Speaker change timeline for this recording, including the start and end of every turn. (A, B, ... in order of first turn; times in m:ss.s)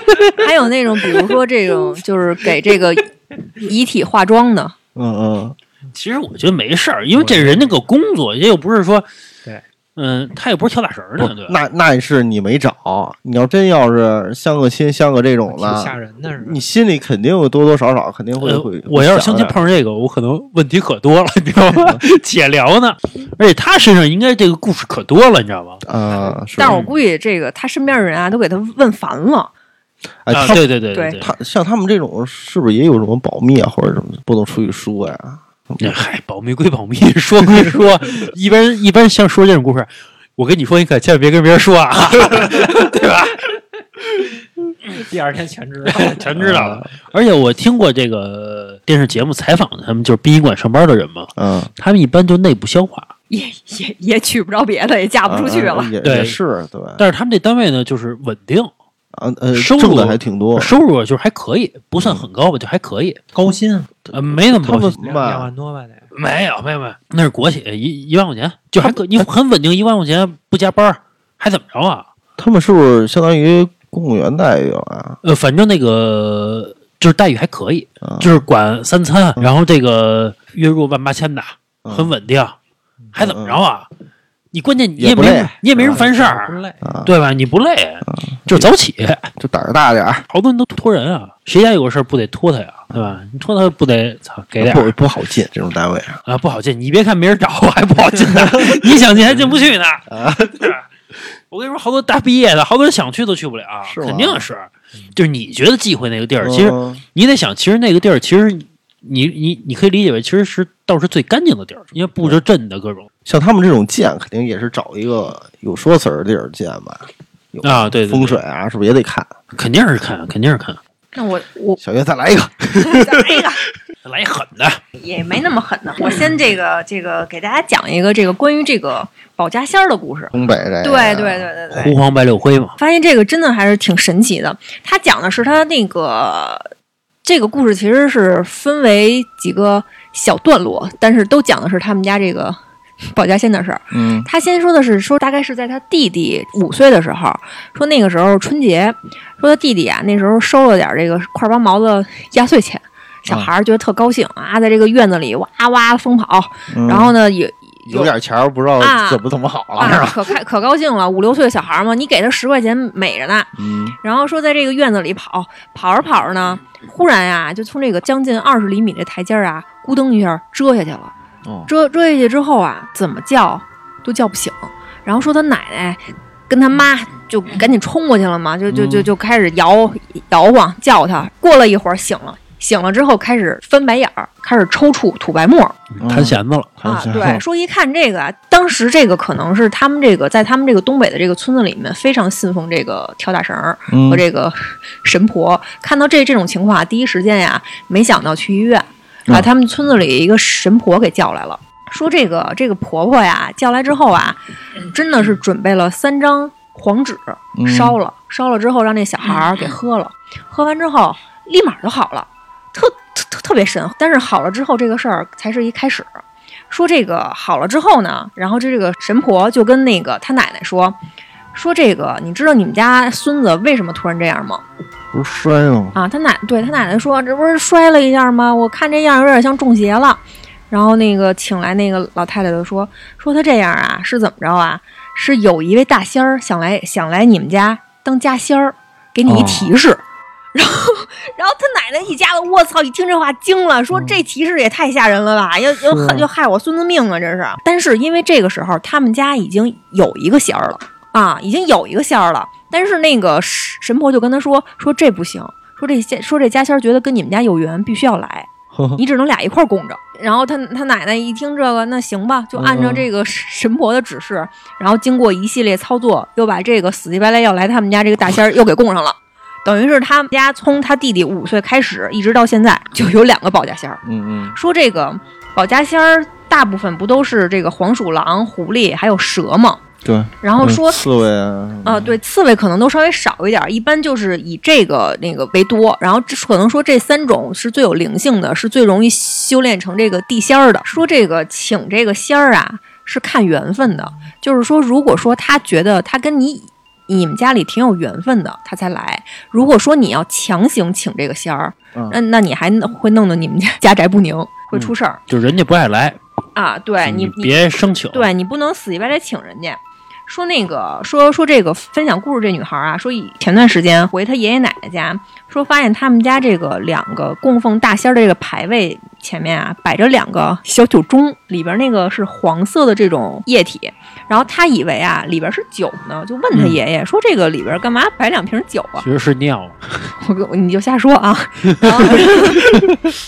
0:00.3-0:04.7 A
0:04.9-0:05.6 B
0:05.9-0:09.0 C
0:07.1-0:07.8 D
0:10.0-0:11.6 C
0:11.2-0:19.6 B
0:15.5-0:16.6 D
0:18.4-0:25.8 C
0:21.7-0:22.0 B
0:25.8-0:26.8 B
0:26.5-0:29.5 A
0:30.2-0:30.6 B
0:30.3-0:31.3 C
0:30.9-0:31.2 A
0:31.2-0:35.8 B
0:35.8-0:43.4 C
0:44.9-0:46.4 D
0:45.8-0:53.1 C
0:46.4-0:46.9 B
0:51.4-0:51.7 B
0:53.3-0:55.9 A
0:55.2-0:57.0 B
0:56.0-0:56.4 C
0:57.0-0:58.7 C
0:59.1-1:00.7 B
0:59.5-1:03.2 C
1:03.3-1:03.9 D
1:04.1-1:05.5 B
1:04.1-1:05.0 C
1:05.0-1:06.1 D
1:06.1-1:12.0 C
1:12.4-1:15.2 B
1:15.2-1:22.5 C
1:18.0-1:18.4 B
1:21.8-1:22.1 B
1:23.1-1:23.9 C
1:23.2-1:23.6 B
1:24.5-1:29.3 C
1:25.0-1:26.0 B
1:25.7-1:26.8 D
1:26.8-1:27.1 B
1:28.1-1:28.7 B
1:29.4-1:30.2 B
1:30.3-1:34.9 C
1:34.6-1:36.2 B
1:36.3-1:40.8 C
1:38.3-1:38.8 B
1:40.1-1:40.7 B
1:41.4-1:53.1 C
1:43.8-1:44.5 B
1:46.4-1:47.0 B
1:53.2-1:59.3 B
1:57.6-1:58.4 C
1:59.5-2:00.8 C
2:01.1-2:01.8 A
2:01.8-2:03.5 B
2:02.8-2:03.6 A
2:04.0-2:04.8 C
2:05.0-2:12.0 A
2:10.3-2:11.5 B
2:11.7-2:12.8 C
2:12.8-2:16.7 A
2:17.2-2:38.1 A
2:23.9-2:24.3 B
2:36.7-2:37.1 B
2:37.8-2:40.2 B
2:38.8-2:39.2 A
2:39.8-2:51.1 A
2:43.6-2:44.0 B
2:51.4-2:51.7 B
2:51.7-3:05.8 A
2:58.7-2:59.1 B
3:05.9-3:06.7 C
3:06.0-3:07.4 B
3:06.8-3:36.2 A
3:13.9-3:14.2 B
3:27.6-3:28.0 B
3:36.7-3:41.0 A
3:41.5-3:44.6 A
3:45.1-3:46.0 B
3:45.9-4:00.0 A
3:59.3-3:59.7 B
4:00.5-4:34.0 A
4:03.9-4:04.2 B
4:05.8-4:06.3 B
4:18.7-4:19.0 B
4:22.5-4:23.1 B
4:34.0-4:34.6 B
4:34.5-4:39.8 A
4:40.0-4:42.2 B
4:40.4-4:41.0 A
4:41.8-5:05.2 A
5:04.8-5:06.2 C
5:06.6-5:29.0 A
5:07.0-5:08.3 C
5:26.5-5:26.8 C
5:29.0-5:30.1 C
5:30.2-5:32.9 A
5:31.7-5:32.7 C